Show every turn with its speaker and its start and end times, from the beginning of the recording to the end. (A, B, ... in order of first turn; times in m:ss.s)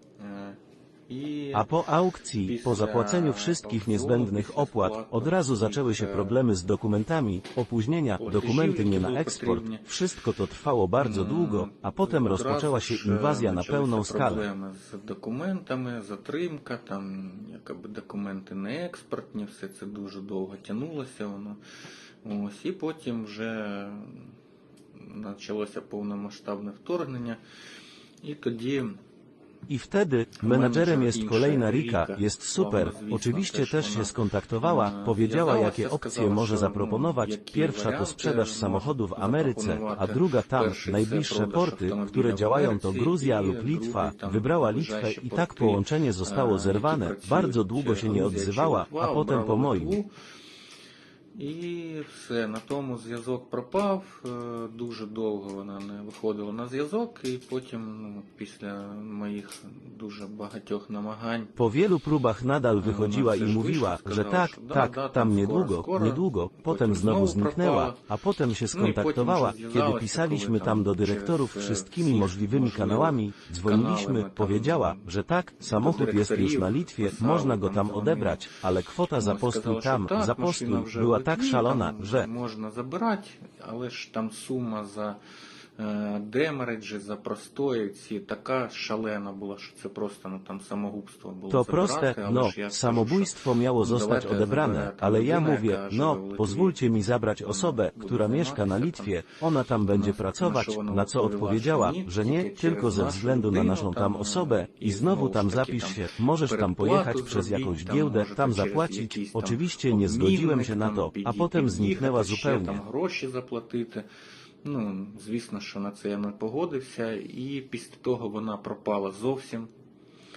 0:00.2-0:01.7 A
0:01.5-0:14.4 B
0:02.4-0:06.4 A
0:08.2-0:10.0 A
0:11.0-0:21.6 A
0:22.2-0:24.3 A
0:25.0-0:27.4 A
0:28.2-0:29.0 A
0:29.7-0:50.0 B
0:30.4-0:50.1 A
0:51.4-1:01.5 A
1:01.6-1:22.3 B
1:02.8-1:08.1 A
1:08.7-1:18.5 A
1:19.2-1:25.2 A
1:25.8-1:36.8 A
1:31.5-1:52.8 B
1:37.4-1:39.2 A
1:39.9-1:54.1 A
1:54.6-1:59.7 A